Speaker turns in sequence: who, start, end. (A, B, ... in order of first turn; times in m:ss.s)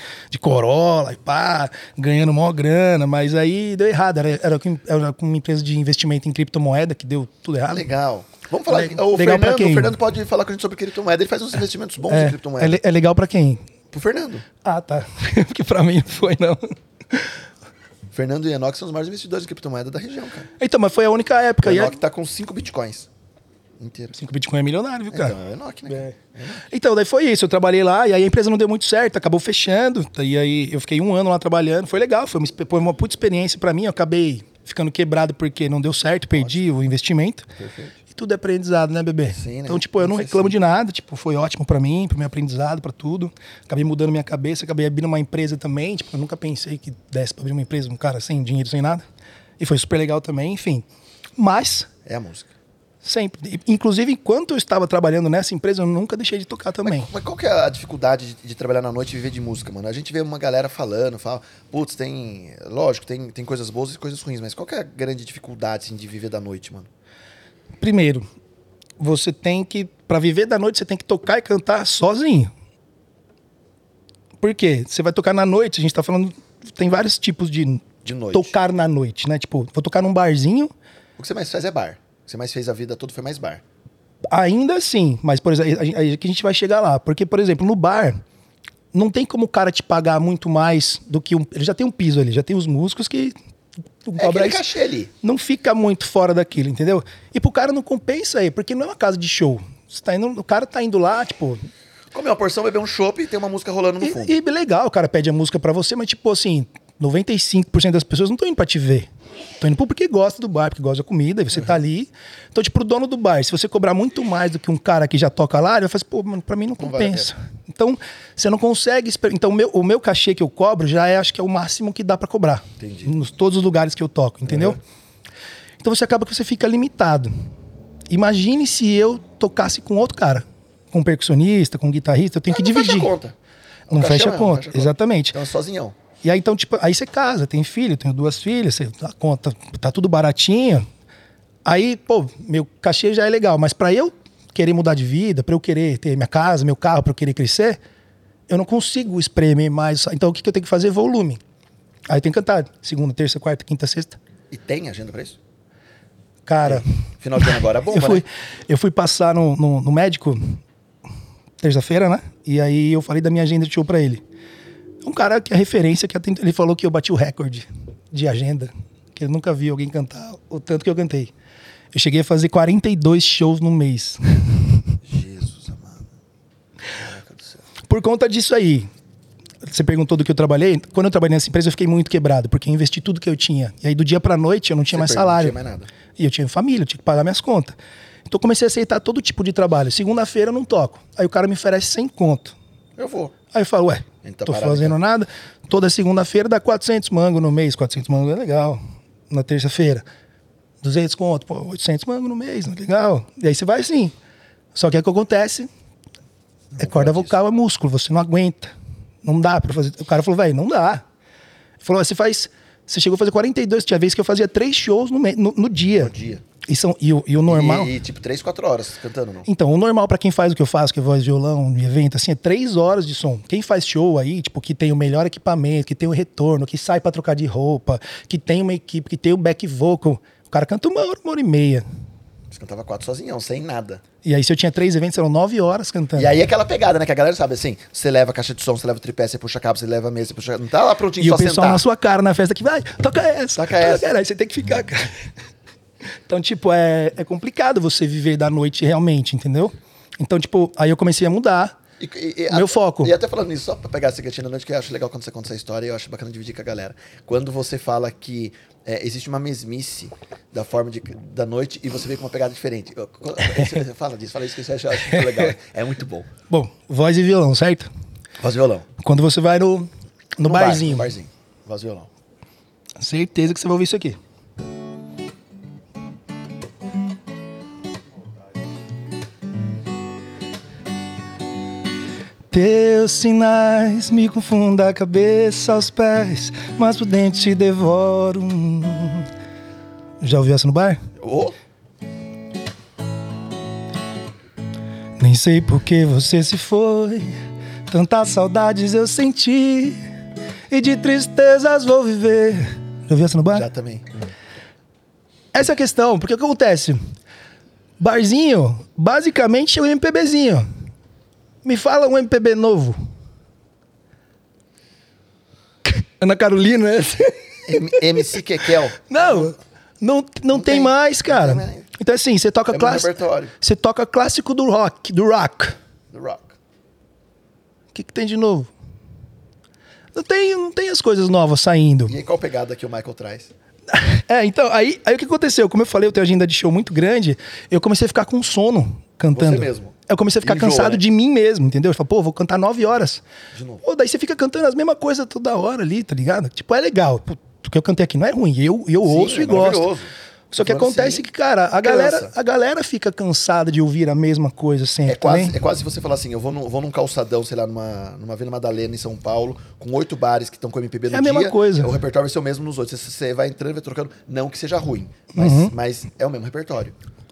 0:00.3-0:07.8 A
0:07.7-0:12.8 B
0:08.7-0:09.9 A
0:12.1-0:13.7 A
0:13.9-0:14.4 B
0:14.6-0:17.4 A
0:18.1-0:20.5 B
0:20.6-0:21.9 A
0:21.6-0:23.1 B
0:23.8-0:24.1 B
0:24.1-0:25.3 A
0:25.1-0:26.6 B
0:25.9-0:26.2 A
0:26.7-0:37.5 A
0:36.4-0:36.6 B
0:37.6-0:38.0 B
0:38.1-0:49.0 A
0:39.3-0:40.5 B
0:49.6-0:50.8 A
0:51.4-0:51.9 A
0:52.0-0:52.5 B
0:53.0-0:57.1 A
0:56.8-1:06.9 B
1:07.8-1:08.3 A
1:09.0-1:12.5 A
1:14.4-1:20.7 A
1:18.0-1:18.5 B
1:21.2-1:23.6 B
1:24.3-1:28.2 A
1:28.9-1:33.3 A
1:34.0-1:34.6 A
1:34.2-1:35.1 B
1:35.2-1:41.6 A
1:42.1-1:44.3 B
1:44.0-1:49.1 A
1:49.6-2:04.8 A
1:56.8-1:57.3 B
2:02.8-2:03.1 B
2:04.5-2:04.8 B
2:05.8-2:07.3 A
2:08.1-2:13.1 A
2:12.5-2:13.3 B
2:13.9-2:16.0 B
2:13.9-2:15.4 A
2:16.2-2:20.9 A
2:21.6-2:27.8 A
2:28.5-2:31.4 A
2:32.1-2:34.2 A
2:34.5-2:35.4 B
2:36.4-2:36.8 A
2:36.6-2:38.2 B
2:37.4-2:40.6 A
2:41.6-2:44.2 A
2:45.0-2:51.3 A
2:51.9-2:54.6 A
2:55.0-2:56.1 B
2:56.9-2:57.6 B
2:57.9-2:58.9 A
2:59.6-3:05.6 A
3:04.9-3:05.9 B
3:06.2-3:07.8 A
3:08.3-3:12.5 A
3:13.0-3:13.3 B
3:13.5-3:20.0 A
3:14.2-3:15.0 B
3:20.8-3:24.1 A
3:24.7-3:25.7 A
3:26.7-3:27.4 B
3:26.8-3:28.7 A
3:29.2-3:31.0 A
3:31.8-3:36.1 A
3:36.0-3:36.4 B
3:36.6-3:37.9 A
3:37.5-3:39.5 B
3:39.4-3:51.8 A
3:52.5-3:54.0 B
3:54.2-3:56.4 A
3:56.2-4:01.8 B
4:01.2-4:05.3 A
4:03.6-4:04.1 B
4:06.3-4:11.8 A
4:12.0-4:26.3 B
4:12.5-4:13.1 A
4:26.5-4:27.9 A
4:28.4-4:28.9 B
4:29.0-4:31.1 A
4:30.4-4:32.1 B
4:33.0-4:34.2 A
4:42.5-4:49.3 A
4:50.2-4:51.0 A
4:51.2-4:51.6 B
4:55.2-4:57.3 A
4:57.9-5:00.0 A
5:00.7-5:03.6 A
5:03.5-5:04.1 B
5:05.5-5:07.0 A
5:08.0-5:10.6 A
5:11.6-5:13.0 A
5:15.8-5:18.2 A
5:17.6-5:19.5 B
5:19.0-5:25.8 A
5:20.5-5:21.9 B
5:22.7-5:23.5 B
5:26.1-5:26.6 B
5:27.9-5:28.7 A
5:30.1-5:32.2 A
5:32.1-5:33.5 B
5:33.9-5:43.2 A
5:39.3-5:41.0 B
5:43.5-5:43.8 B
5:43.8-5:49.9 A
5:49.0-5:51.2 B
5:50.5-5:55.5 A
5:51.8-5:52.3 B
5:55.1-6:06.9 B
6:01.1-6:01.9 A
6:05.3-6:05.7 A